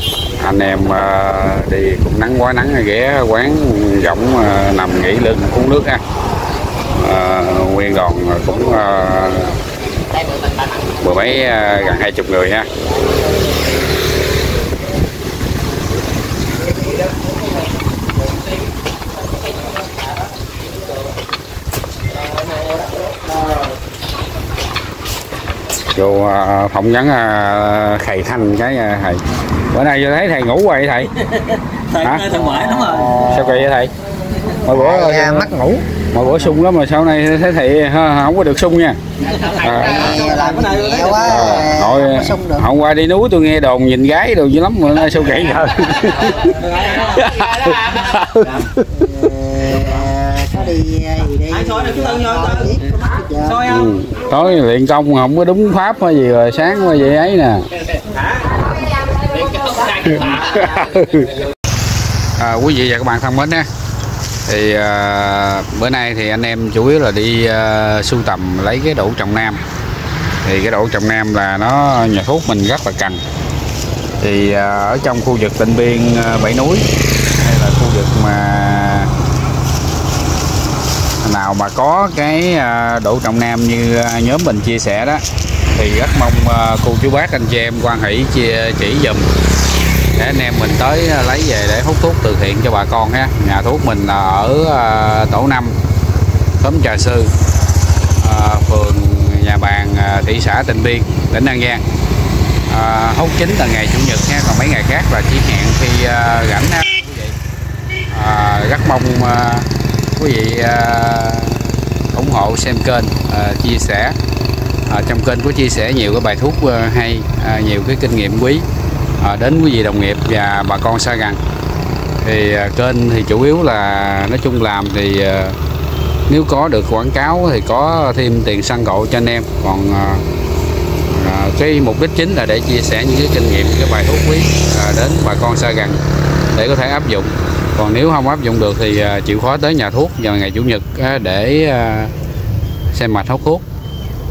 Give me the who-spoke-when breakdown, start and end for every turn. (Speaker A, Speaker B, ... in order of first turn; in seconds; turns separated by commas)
Speaker A: 0.4-6.0, Speaker A: 6.9-9.6, Speaker B: 8.8-9.3, Speaker B: 10.0-11.8, Speaker A: 11.0-12.7, Speaker A: 25.9-31.1, Speaker B: 31.9-33.2, Speaker A: 32.0-32.3, Speaker C: 32.4-33.4, Speaker A: 33.1-33.9, Speaker A: 34.6-39.0, Speaker C: 34.6-35.8, Speaker B: 39.2-41.2, Speaker A: 39.5-40.2, Speaker C: 39.8-42.7, Speaker A: 41.1-48.7, Speaker B: 46.4-48.1, Speaker C: 48.9-53.8, Speaker B: 51.6-53.9, Speaker A: 53.6-57.7, Speaker B: 58.2-58.6, Speaker B: 59.1-61.1, Speaker A: 60.1-61.3, Speaker A: 62.4-63.7, Speaker A: 64.5-69.6, Speaker A: 70.4-73.2, Speaker A: 74.2-79.1, Speaker A: 81.2-89.3, Speaker A: 90.2-95.8, Speaker A: 96.6-97.3, Speaker A: 98.2-101.8, Speaker A: 102.7-107.3, Speaker A: 108.1-114.2, Speaker A: 114.9-118.7, Speaker A: 119.2-121.4, Speaker A: 122.2-125.6, Speaker A: 126.3-130.2, Speaker A: 131.2-136.0, Speaker A: 136.5-142.1, Speaker A: 142.9-143.7